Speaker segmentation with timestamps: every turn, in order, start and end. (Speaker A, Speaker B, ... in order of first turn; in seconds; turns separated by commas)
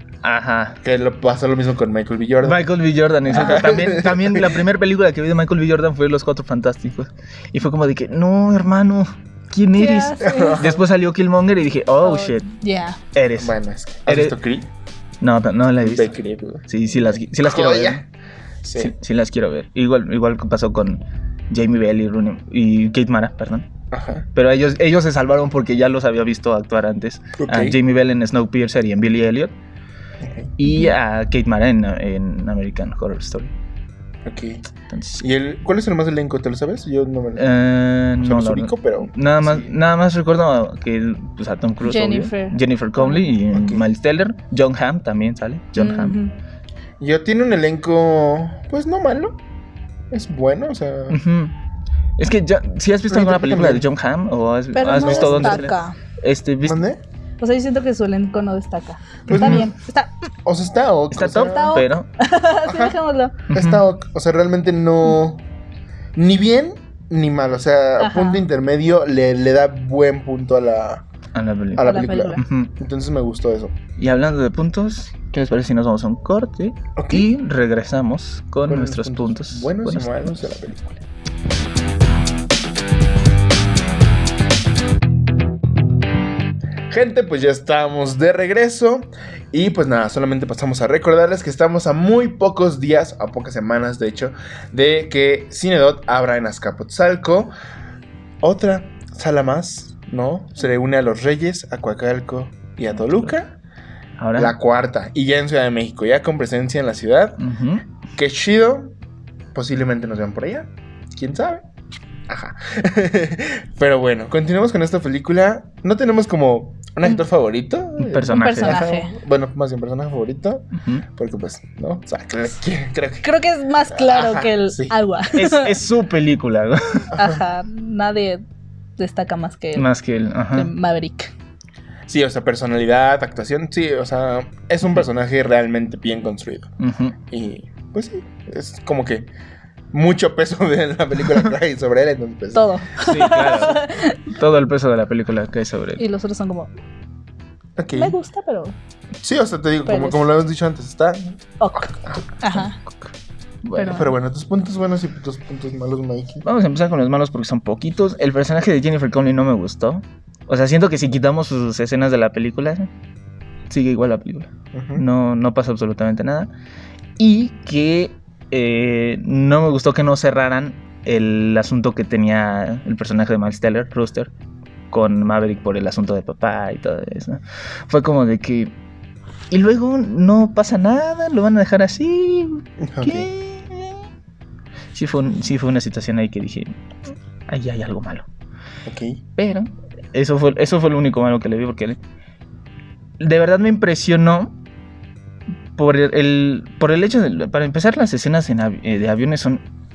Speaker A: 0.2-0.8, Speaker B: 0.8-2.6, Speaker A: 2.4-12.4, Speaker C: 3.3-3.6, Speaker B: 3.3-4.6, Speaker C: 9.7-10.7, Speaker B: 10.2-10.8, Speaker C: 12.0-13.0, Speaker A: 13.1-14.4, Speaker B: 13.4-14.7, Speaker A: 15.2-16.1, Speaker B: 15.8-18.0, Speaker A: 16.7-18.0, Speaker B: 18.6-18.9, Speaker A: 18.8-23.7, Speaker B: 23.9-24.3, Speaker A: 24.4-29.5, Speaker B: 27.4-27.8, Speaker B: 30.2-30.6, Speaker A: 30.6-33.5, Speaker B: 34.2-34.6, Speaker A: 34.9-35.2, Speaker B: 35.2-37.5, Speaker A: 37.4-46.2, Speaker B: 38.2-39.7, Speaker C: 41.8-43.2, Speaker B: 43.5-43.8, Speaker C: 45.8-46.3, Speaker B: 47.0-49.4, Speaker B: 50.1-51.2, Speaker A: 51.1-51.5, Speaker A: 52.2-56.9, Speaker B: 53.1-53.9, Speaker C: 54.8-56.0, Speaker B: 55.0-55.7, Speaker B: 56.6-57.0, Speaker C: 57.4-60.1, Speaker B: 59.3-59.7, Speaker A: 59.3-59.7, Speaker B: 60.5-61.8, Speaker A: 61.1-62.1, Speaker C: 61.3-63.4, Speaker B: 62.6-63.0, Speaker A: 63.5-63.9, Speaker B: 63.5-65.5, Speaker B: 66.2-71.0, Speaker C: 68.0-68.4, Speaker A: 71.3-72.7, Speaker B: 71.8-73.8, Speaker C: 71.8-72.4, Speaker A: 74.0-80.6, Speaker B: 77.0-77.3, Speaker B: 78.7-81.0, Speaker B: 86.9-97.5, Speaker B: 98.4-103.5, Speaker A: 104.2-104.5, Speaker B: 104.4-107.4, Speaker A: 107.4-107.8, Speaker B: 108.1-108.9, Speaker B: 109.5-111.6, Speaker B: 112.3-123.3, Speaker A: 118.0-118.8, Speaker C: 118.3-119.2, Speaker A: 120.7-121.0, Speaker C: 123.2-125.8, Speaker B: 123.9-124.9, Speaker A: 125.3-127.1, Speaker C: 127.2-128.4, Speaker C: 129.0-129.9, Speaker A: 129.8-130.7, Speaker C: 130.5-131.3, Speaker B: 132.1-136.7, Speaker A: 136.8-137.2, Speaker B: 137.3-139.3, Speaker B: 139.9-142.7, Speaker C: 142.5-144.2, Speaker A: 143.0-146.0, Speaker C: 146.0-146.7, Speaker B: 147.8-148.2, Speaker C: 147.9-148.8, Speaker B: 149.2-152.3, Speaker C: 149.9-150.2, Speaker C: 151.6-152.8, Speaker A: 153.6-154.1, Speaker C: 153.8-154.1, Speaker B: 153.9-156.4, Speaker A: 156.4-162.9, Speaker A: 163.7-166.5, Speaker B: 164.7-165.0, Speaker A: 167.2-174.3, Speaker A: 174.9-178.7, Speaker A: 179.5-184.1, Speaker B: 182.9-183.3, Speaker A: 184.9-186.8, Speaker A: 187.5-188.3, Speaker B: 188.9-189.2, Speaker A: 189.4-192.0, Speaker A: 193.2-194.6, Speaker A: 195.8-199.6